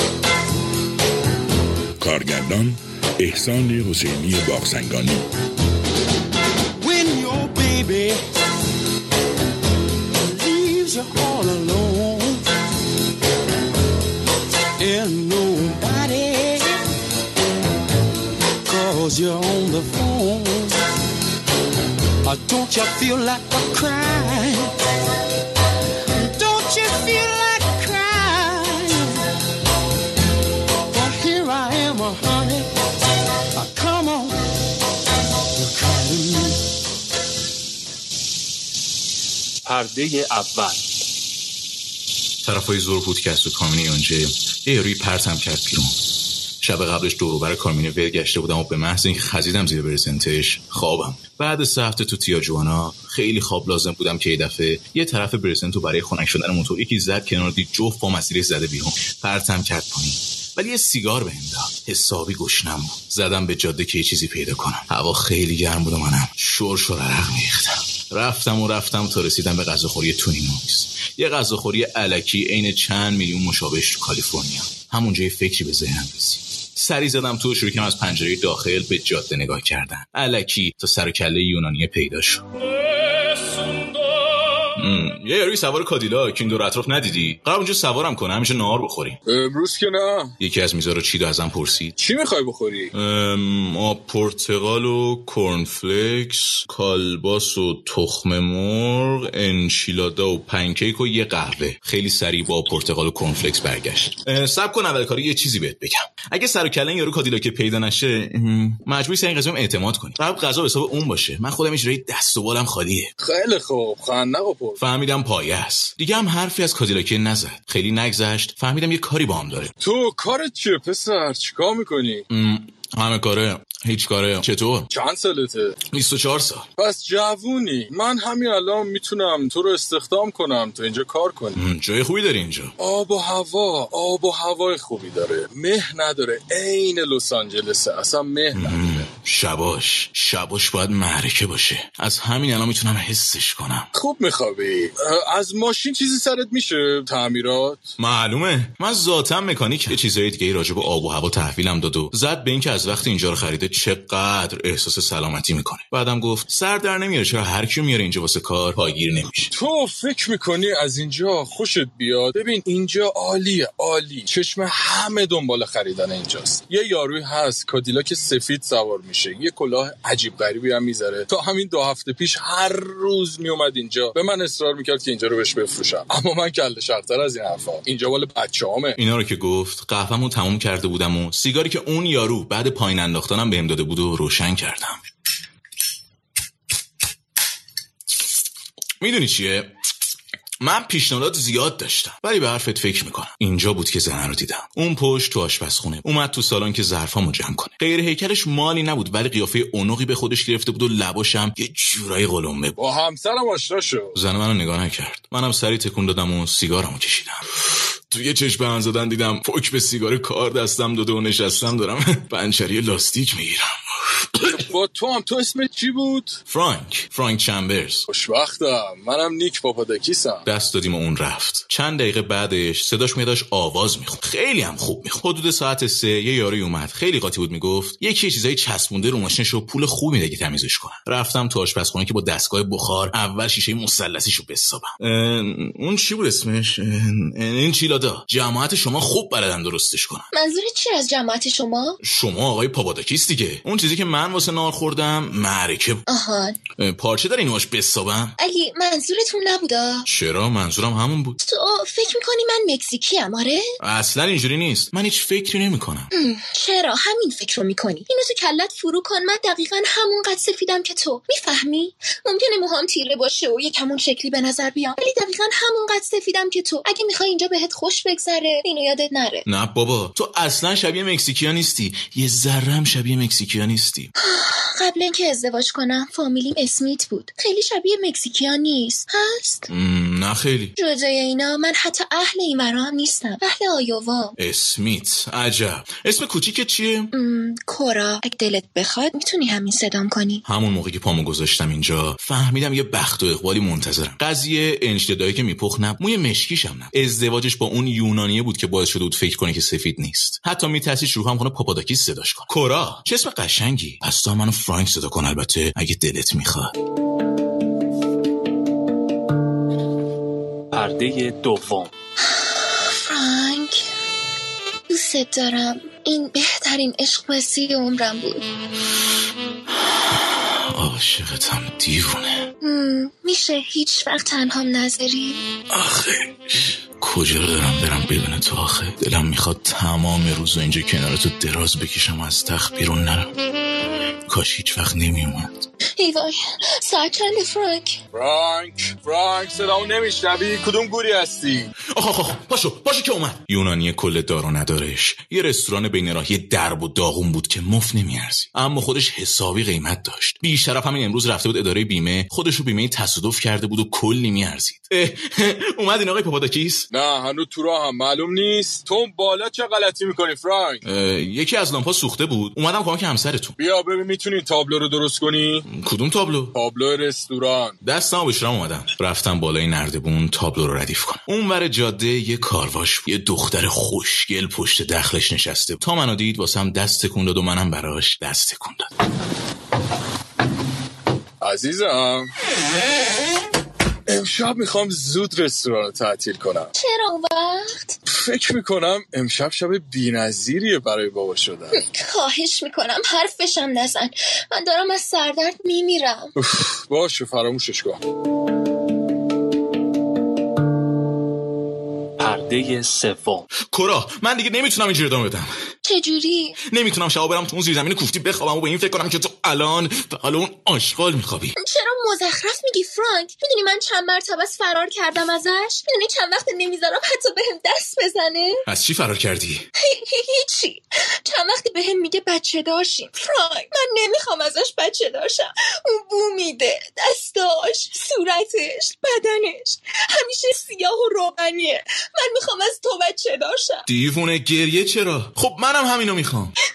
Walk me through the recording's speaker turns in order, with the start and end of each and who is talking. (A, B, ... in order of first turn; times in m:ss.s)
0:02.0-0:05.2 A
0:06.8-0:08.2 B
0:10.2-0:12.4 B
0:14.8-0:16.8 B
0:18.6-0:20.8 B
0:22.2-0:24.7 B
0:26.2-0:29.2 B
0:30.9-0:32.7 B
0:33.6-0:34.4 B
0:35.6-0:36.6 B
0:39.6-0:40.8 C
0:42.4-0:45.9 D
0:46.6-1:22.4 D
1:23.4-1:23.9 E
1:24.7-1:29.2 D
1:29.2-1:30.4 E
1:30.4-1:31.9 D
1:32.0-1:32.9 E
1:32.9-1:53.1 D
1:53.2-1:54.8 E
1:54.8-1:59.7 D
1:59.8-2:02.2 E
2:02.3-2:04.9 D
2:04.9-2:05.8 E
2:05.9-2:06.7 D
2:06.8-2:11.6 E
2:11.5-2:12.7 D
2:12.8-2:19.1 E
2:18.5-2:23.9 D
2:23.9-2:27.9 E
2:28.0-2:39.5 D
2:39.5-2:59.0 E
2:59.0-3:05.0 D
3:09.0-3:09.7 D
3:10.6-3:22.8 D
3:22.8-3:24.2 E
3:24.1-3:34.6 D
3:34.6-3:36.4 E
3:36.5-3:38.1 D
3:38.1-3:40.4 E
3:40.4-4:00.3 D
4:00.3-4:02.0 F
4:02.0-4:06.0 D
4:06.1-4:06.6 F
4:06.8-4:08.3 D
4:08.4-4:10.0 F
4:10.1-4:11.4 D
4:11.4-4:13.6 F
4:13.8-4:16.1 D
4:16.1-4:29.4 F
4:29.4-4:34.1 D
4:34.2-4:39.7 F
4:39.7-4:40.7 D
4:40.8-4:44.3 F
4:44.4-4:47.1 D
4:47.1-4:50.4 F
4:50.4-5:06.7 D
5:10.7-5:11.9 C
5:12.2-5:13.9 F
5:14.9-5:18.4 F
5:19.7-5:22.4 D
5:22.6-5:25.4 F
5:25.7-5:33.3 D
5:34.3-5:35.6 D
5:36.0-5:38.0 F
5:38.1-5:41.7 E
5:41.9-5:56.9 D
5:56.9-6:00.8 E
6:00.8-6:03.6 D
6:03.6-6:05.6 E
6:05.7-6:06.5 D
6:06.5-6:07.8 E
6:07.8-6:18.9 D
6:21.4-6:22.3 E
6:24.1-6:26.7 E
6:26.7-6:28.0 F
6:28.1-6:31.8 E
6:31.7-6:36.3 F
6:36.4-6:38.0 E
6:42.2-6:43.4 C
6:43.6-6:45.5 D
6:45.8-6:46.6 F
6:46.6-6:51.5 D
6:51.6-6:58.6 F
6:58.6-6:59.7 D
6:59.8-7:13.8 F
7:13.9-7:16.5 D